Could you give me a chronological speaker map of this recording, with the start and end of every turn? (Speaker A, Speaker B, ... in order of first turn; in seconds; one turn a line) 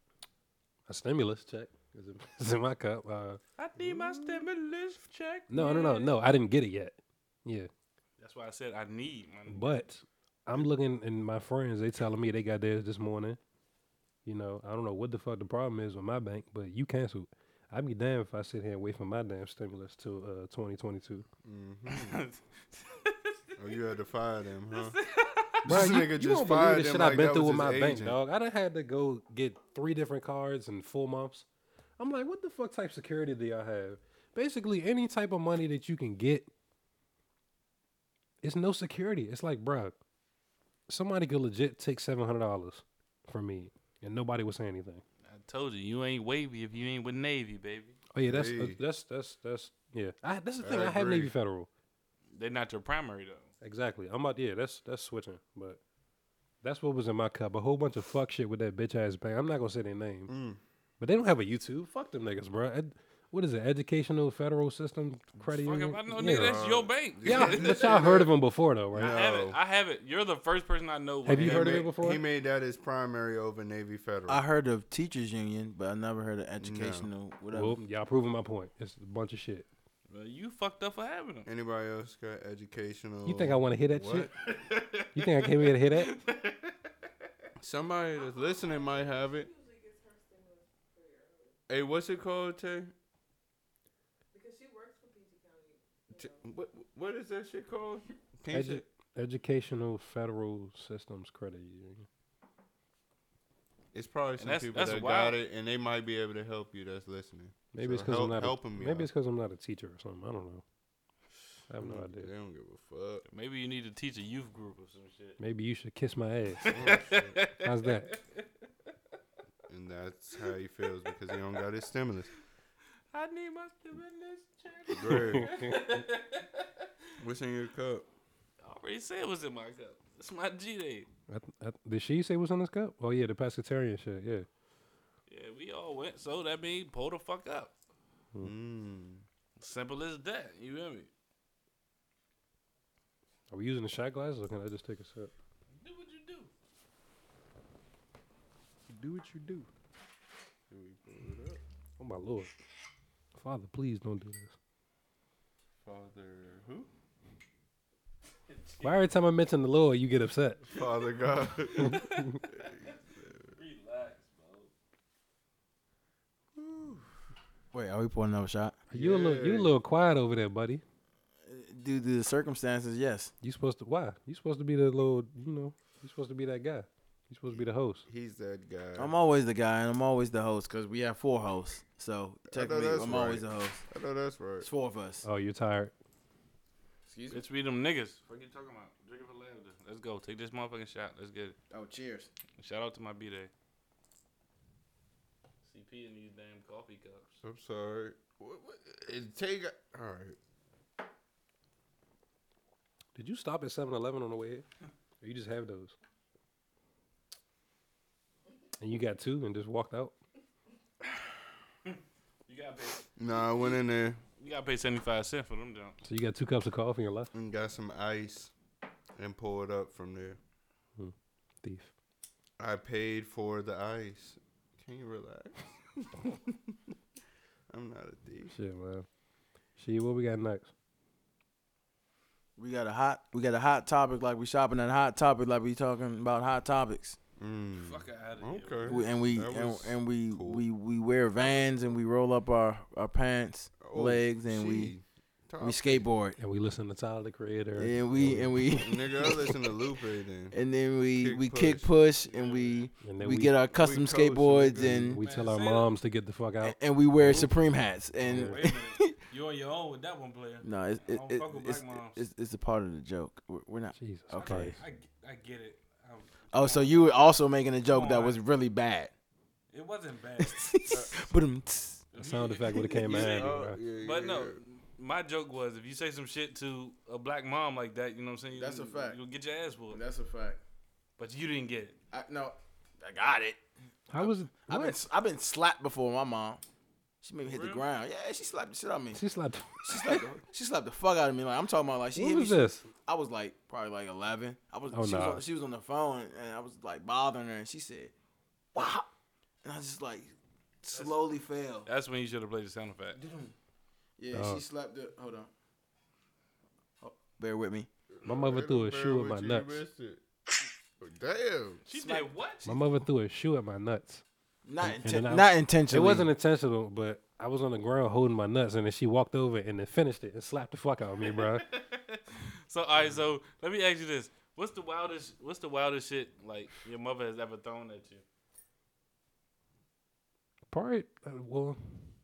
Speaker A: 0.9-3.4
Speaker B: 3.6-6.1
Speaker C: 3.8-4.4
Speaker A: 5.5-7.7
Speaker B: 8.2-9.8
Speaker A: 9.5-13.4
Speaker A: 14.2-21.2
Speaker C: 21.4-22.2
Speaker B: 21.9-23.4
Speaker C: 23.6-25.0
Speaker B: 24.7-25.6
Speaker C: 25.6-28.2
Speaker A: 25.6-31.4
Speaker A: 32.0-36.5
Speaker A: 38.4-39.9
Speaker A: 40.9-45.0
Speaker B: 45.2-48.0
Speaker A: 48.1-51.7
Speaker C: 48.2-48.8
Speaker C: 50.6-51.3
Speaker B: 52.3-53.5
Speaker A: 53.6-55.8
Speaker A: 56.6-60.3
Speaker C: 60.3-60.6
Speaker A: 61.0-66.6
Speaker B: 65.5-68.1
Speaker C: 66.2-68.3
Speaker A: 67.2-69.1
Speaker C: 68.9-69.6
Speaker B: 68.9-71.9
Speaker A: 71.2-72.2
Speaker C: 71.3-74.4
Speaker D: 74.3-77.8
Speaker C: 76.6-77.1
Speaker A: 77.5-79.7
Speaker B: 80.1-81.5
Speaker C: 81.5-84.5
Speaker A: 83.2-84.3
Speaker B: 84.4-86.7
Speaker A: 85.1-86.2
Speaker C: 87.6-89.5
Speaker E: 88.1-91.6
Speaker C: 91.7-92.9
Speaker E: 94.3-96.5
Speaker C: 96.2-98.8
Speaker A: 98.5-102.1
Speaker C: 103.9-109.1
Speaker B: 104.4-105.4
Speaker A: 107.7-110.6
Speaker A: 111.7-112.3
Speaker C: 111.7-113.2
Speaker B: 113.3-115.4
Speaker A: 115.4-116.8
Speaker B: 116.5-118.4
Speaker C: 116.7-117.4
Speaker A: 117.6-118.1
Speaker C: 119.7-122.3
Speaker B: 123.1-126.9
Speaker C: 124.9-126.0
Speaker A: 125.0-125.8
Speaker C: 127.2-128.1
Speaker B: 128.6-131.1
Speaker A: 131.3-134.5
Speaker B: 135.3-137.7
Speaker C: 138.4-139.2
Speaker B: 139.6-141.1
Speaker A: 143.5-145.3
Speaker B: 145.8-146.5
Speaker A: 148.9-149.7
Speaker C: 150.7-151.6
Speaker A: 152.0-152.5
Speaker A: 153.3-154.5
Speaker C: 155.8-156.9
Speaker B: 158.5-159.1
Speaker A: 158.8-160.6
Speaker C: 160.6-163.6
Speaker B: 161.6-164.7
Speaker A: 161.8-162.2
Speaker C: 166.5-167.1
Speaker D: 167.7-168.7
Speaker A: 168.9-170.8
Speaker C: 168.9-169.8
Speaker D: 171.4-173.3
Speaker A: 173.4-178.1
Speaker C: 177.5-179.1
Speaker D: 179.0-183.8
Speaker C: 182.5-184.7
Speaker D: 184.6-185.2
Speaker A: 185.2-185.9
Speaker D: 187.1-187.4
Speaker B: 187.3-191.6
Speaker D: 191.7-192.3
Speaker B: 192.6-193.5
Speaker B: 195.6-197.4
Speaker C: 197.4-200.4
Speaker A: 203.1-204.6
Speaker A: 205.2-205.9
Speaker A: 208.8-210.1
Speaker B: 211.8-213.8
Speaker C: 213.2-214.2
Speaker B: 214.4-216.0
Speaker A: 216.0-217.3
Speaker C: 217.3-218.5
Speaker C: 219.2-220.4
Speaker A: 221.0-221.9
Speaker C: 222.6-226.8
Speaker C: 227.7-228.6
Speaker A: 228.5-229.1
Speaker A: 229.8-230.7
Speaker D: 232.6-237.2
Speaker C: 237.4-240.6
Speaker B: 237.7-239.1
Speaker D: 238.9-244.9
Speaker B: 241.4-241.7
Speaker C: 243.8-246.1
Speaker D: 245.6-246.4
Speaker A: 246.4-248.5
Speaker D: 247.8-249.6
Speaker C: 248.7-250.6
Speaker D: 250.5-255.2
Speaker C: 251.1-251.9
Speaker B: 252.2-252.9
Speaker A: 253.0-253.5
Speaker C: 253.7-255.2
Speaker A: 254.8-257.5
Speaker B: 255.2-255.9
Speaker D: 256.6-259.1
Speaker A: 258.2-258.6
Speaker B: 258.3-262.2
Speaker D: 260.6-264.7
Speaker A: 263.9-264.8
Speaker B: 264.4-267.2
Speaker D: 266.5-269.1
Speaker B: 267.9-268.4
Speaker B: 269.7-270.6
Speaker D: 270.4-272.0
Speaker C: 270.9-271.3
Speaker B: 272.1-280.0
Speaker A: 272.2-273.8
Speaker C: 273.1-274.6
Speaker D: 278.5-279.2
Speaker D: 279.9-280.6
Speaker B: 281.2-281.9
Speaker D: 282.1-283.6
Speaker A: 284.1-285.0
Speaker D: 284.2-286.6
Speaker D: 287.2-289.2
Speaker B: 287.4-287.8
Speaker A: 289.1-290.2
Speaker D: 289.8-298.1
Speaker A: 292.1-292.9
Speaker A: 294.9-295.4
Speaker D: 298.7-299.1
Speaker D: 299.6-301.9
Speaker B: 300.9-301.2
Speaker B: 301.9-303.2
Speaker D: 303.1-303.5
Speaker D: 304.2-305.5
Speaker A: 304.3-304.6
Speaker D: 307.0-307.9
Speaker C: 308.1-310.2
Speaker A: 308.2-309.8
Speaker C: 311.0-311.8
Speaker B: 311.9-312.9
Speaker D: 311.9-312.3
Speaker A: 312.6-314.2
Speaker D: 314.6-316.3
Speaker A: 314.8-321.6
Speaker B: 321.2-328.2
Speaker A: 330.7-332.0